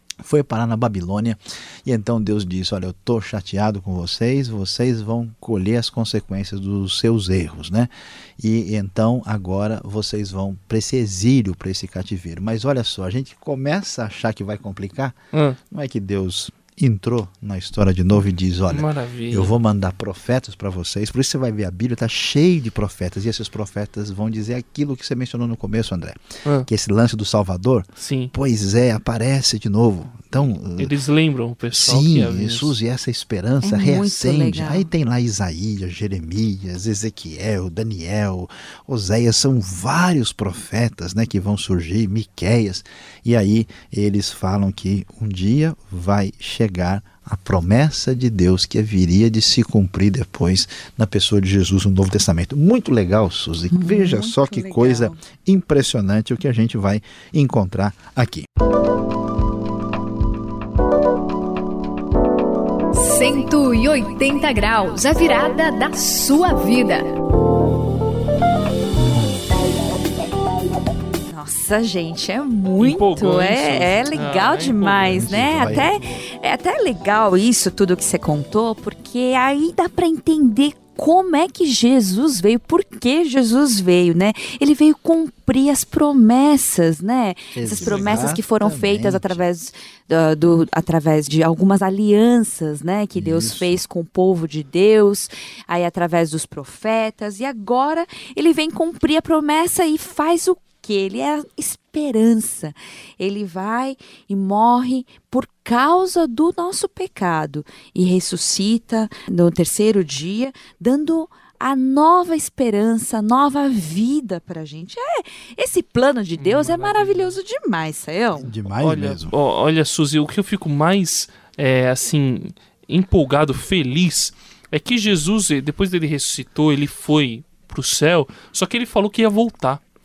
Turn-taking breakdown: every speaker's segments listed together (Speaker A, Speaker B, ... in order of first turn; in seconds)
Speaker A: 0.2-15.2, 15.7-30.9, 31.7-58.5, 75.0-76.2, 87.5-89.5, 93.1-93.8, 118.3-119.3
Speaker B: 15.3-15.6, 18.7-19.5, 28.0-28.3, 30.8-32.7, 72.8-75.2, 87.8-88.3, 116.4-117.4, 118.7-129.8
Speaker C: 33.6-34.9, 53.7-55.2, 71.3-118.5
Speaker D: 62.9-67.0